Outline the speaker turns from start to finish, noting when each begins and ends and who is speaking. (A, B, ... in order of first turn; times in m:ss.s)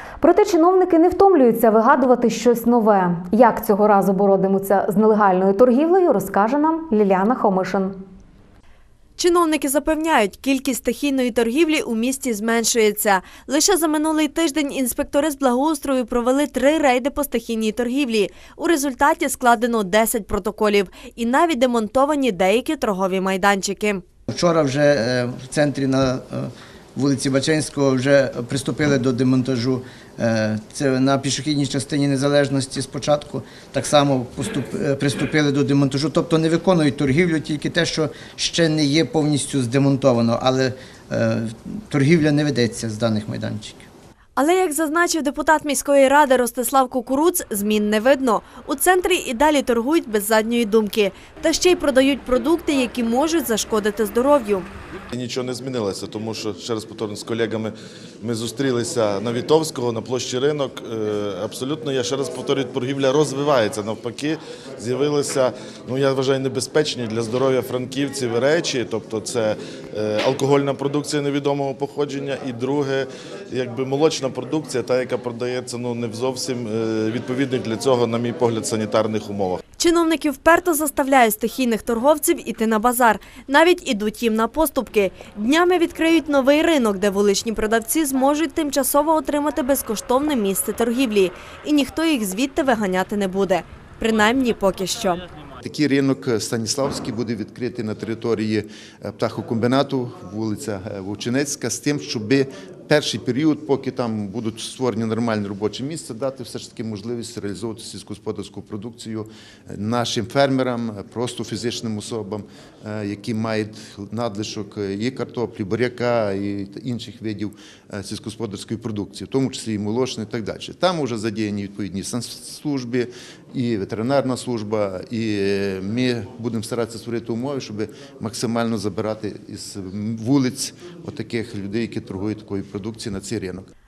0:00.2-0:08.0 A
0:09.2-0:24.0 B
0:24.3-0:43.9 C
0:44.4-0:54.7 B
0:55.1-1:19.6 D
1:19.8-1:35.2 B
1:35.6-2:13.7 E